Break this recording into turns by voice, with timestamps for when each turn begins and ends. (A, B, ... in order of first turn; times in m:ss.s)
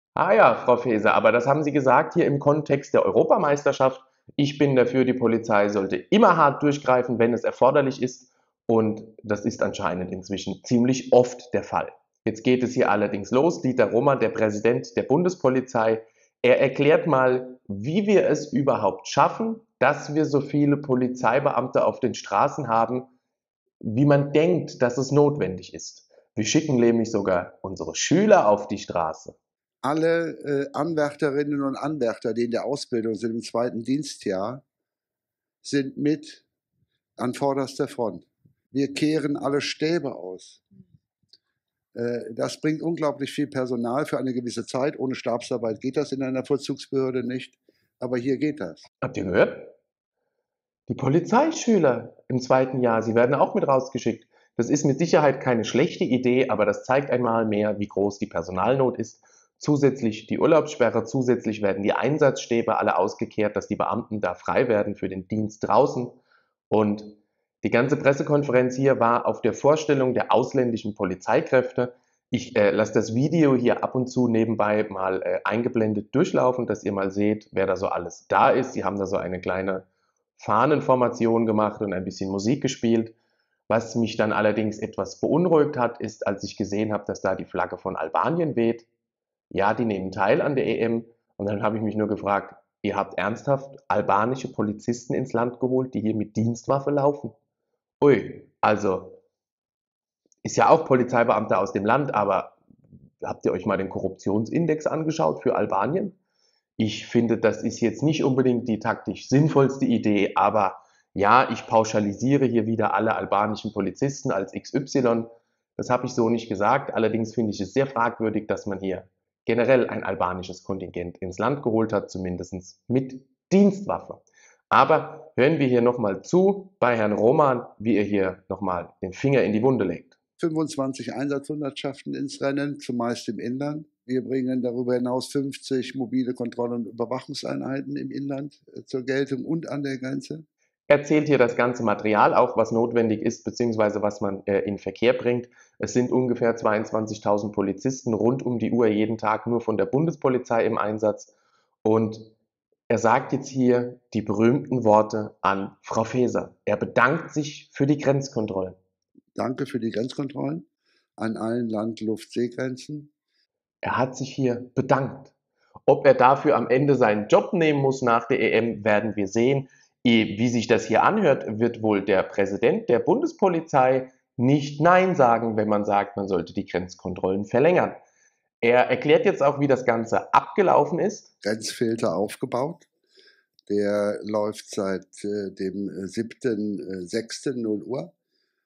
0:00.1-0:23.1 A
0:23.8-0:29.4 A
0:29.8-0:34.6 B
0:35.6-0:36.4 B
0:37.2-0:40.6 B
0:41.9-0:48.9 B
0:49.0-0:49.7 A
0:50.9-1:06.2 A
1:06.7-1:19.8 A
1:20.4-1:23.2 A
1:23.7-1:28.9 A
1:29.5-1:37.3 A
1:38.0-1:39.2 A
1:40.4-1:42.6 A
1:43.2-1:46.2 A
1:46.8-2:10.2 A
2:10.4-2:20.4 B
2:20.9-2:31.3 A
2:31.8-2:32.3 A
2:32.9-2:38.8 A
2:39.4-2:40.7 B
2:41.2-2:43.1 B
2:43.8-2:45.3 A
2:45.9-2:58.0 A
2:58.6-3:01.3 A
3:01.4-3:02.9 B
3:03.7-3:08.1 B